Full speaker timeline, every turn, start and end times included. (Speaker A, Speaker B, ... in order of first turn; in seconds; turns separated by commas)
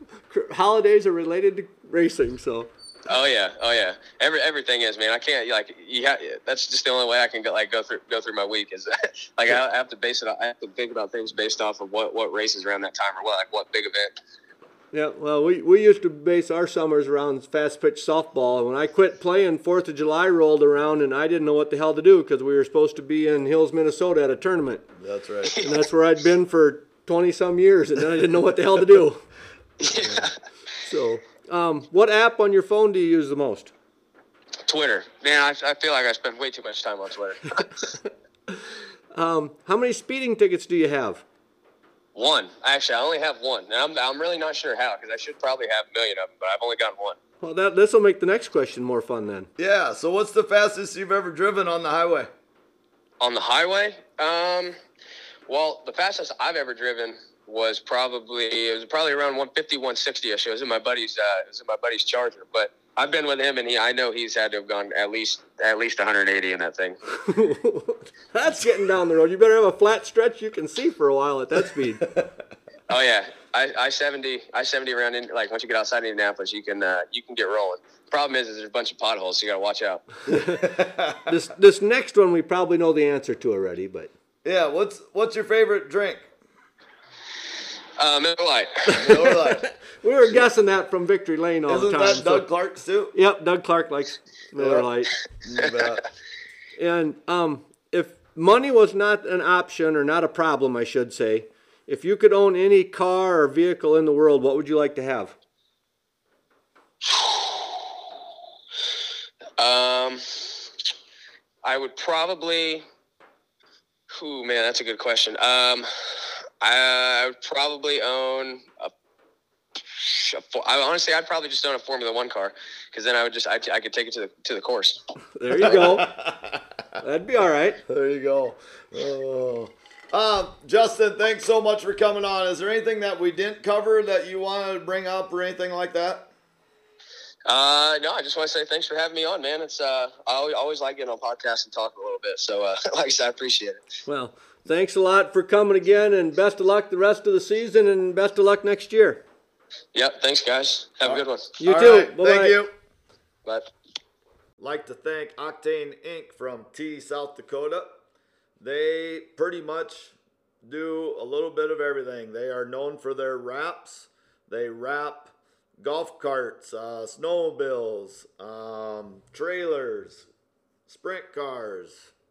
Speaker A: 0.3-2.7, Speaker B: 3.1-14.1, Speaker A: 14.9-24.9, Speaker C: 25.0-25.6, Speaker A: 25.6-29.2, Speaker B: 29.8-30.3, Speaker C: 29.9-30.3, Speaker A: 30.8-33.7, Speaker B: 34.7-37.7, Speaker A: 38.5-41.2, Speaker B: 42.1-47.2, Speaker A: 47.4-49.5, Speaker C: 49.6-52.3, Speaker B: 53.2-54.8, Speaker B: 55.5-67.0, Speaker A: 67.2-72.1, Speaker C: 72.0-72.3, Speaker B: 72.9-80.2, Speaker A: 80.3-80.7, Speaker C: 80.6-81.2, Speaker A: 81.2-84.1, Speaker C: 84.4-86.3, Speaker B: 88.0-89.2, Speaker A: 88.9-92.5, Speaker C: 88.9-89.7, Speaker C: 91.7-93.1, Speaker A: 93.1-95.1, Speaker C: 94.6-94.9, Speaker C: 95.4-96.0, Speaker A: 96.8-105.4, Speaker B: 107.1-107.6, Speaker B: 109.6-110.7, Speaker B: 111.6-112.8, Speaker B: 114.1-118.9, Speaker B: 120.0-125.0, Speaker A: 125.4-126.1, Speaker C: 125.6-126.6, Speaker A: 127.0-127.8, Speaker C: 127.9-136.3, Speaker B: 137.5-143.8, Speaker A: 144.1-149.2, Speaker B: 149.9-151.6, Speaker C: 151.0-152.7, Speaker A: 151.6-152.6, Speaker C: 154.6-158.0, Speaker C: 158.6-170.3, Speaker C: 170.9-172.1